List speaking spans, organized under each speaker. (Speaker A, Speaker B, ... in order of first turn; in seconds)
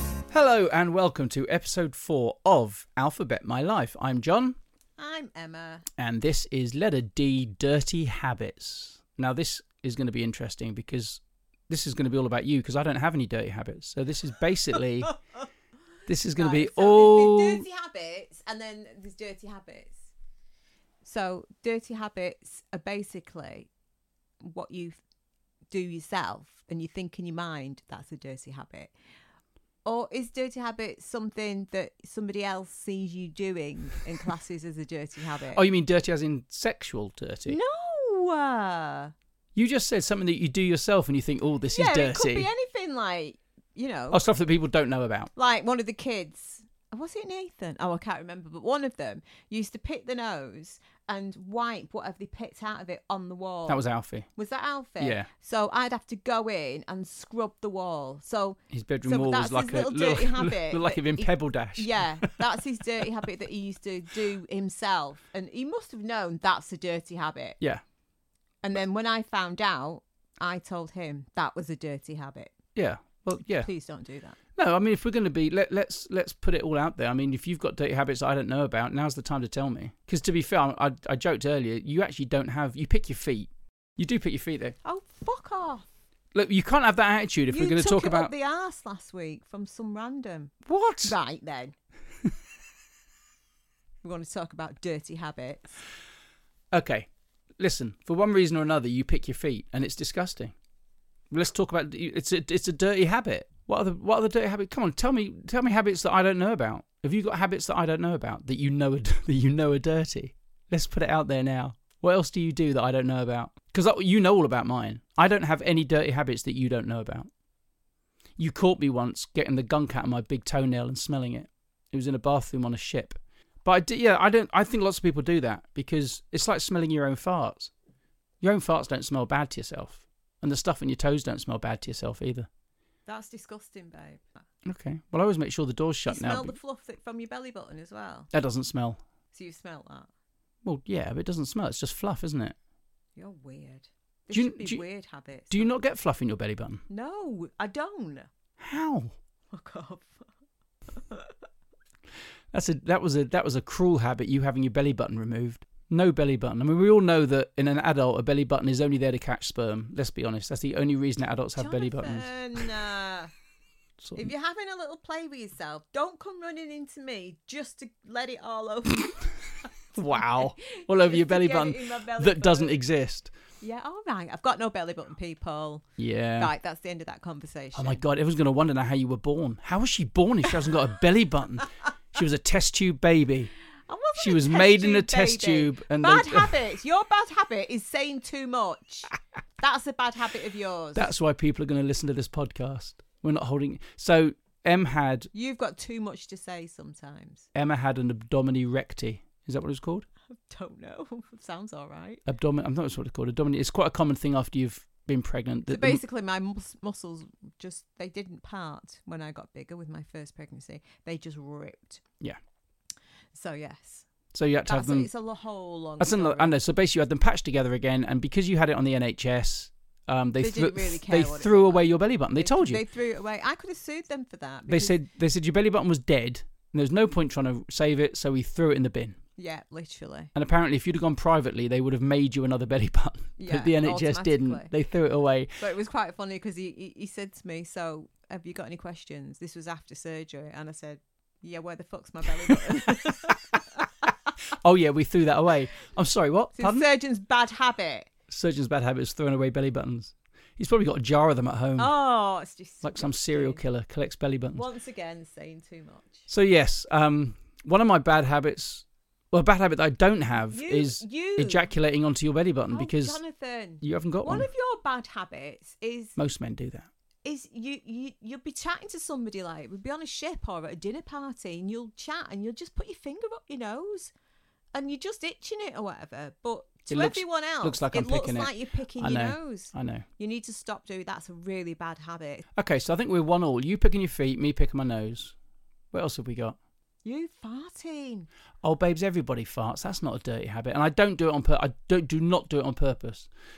Speaker A: 0.3-4.6, 6.0-15.1, 16.1-17.6, 35.5-37.6, 39.5-42.5, 44.1-45.3, 53.7-54.3, 55.0-55.3, 58.7-62.4, 72.8-73.7, 74.6-84.8, 86.3-88.3, 90.7-91.2, 96.7-97.1, 97.6-100.5, 101.3-117.3, 118.4-127.7, 128.4-132.5, 134.7-136.6, 138.3-139.0, 140.6-142.6, 144.3-144.8, 145.5-146.8, 148.6-149.2, 152.5-162.7, 164.0-164.3, 169.9-173.3, 176.0-176.5, 177.8-183.5, 184.2-186.6, 191.0-195.3, 197.6-200.1, 202.3-206.0, 214.3-215.1, 216.0-222.8, 224.7-229.2, 230.3-235.5, 244.6-246.8, 248.3-251.9, 252.8-254.6, 256.3-263.2, 263.8-264.5, 266.2-266.9, 276.9-280.1, 282.6-285.4, 285.9-286.6, 288.6-293.3
Speaker B: 5.0-5.9, 16.3-20.1, 21.0-23.7, 24.4-25.0, 25.7-28.9, 29.9-35.6, 37.5-39.1, 41.7-44.2, 45.4-53.8, 54.4-67.6, 68.6-72.5, 73.5-74.4, 84.8-85.9, 87.5-91.8, 94.0-95.8, 133.1-134.4, 136.1-138.3, 139.3-140.1, 143.2-145.8, 146.9-148.3, 149.5-150.3, 150.9-151.3, 161.6-163.3, 164.2-169.4, 169.9-172.8, 173.6-175.9, 176.4-178.0, 183.9-191.1, 195.3-197.5, 200.3-202.2, 205.7-212.0, 213.3-214.1, 214.7-216.6, 220.4-225.0, 229.4-230.3, 233.4-234.7, 235.6-244.1, 246.6-248.1, 251.8-253.6, 254.5-256.3, 260.5-261.7, 262.7-266.2, 267.2-274.1, 274.7-282.5, 287.1-288.3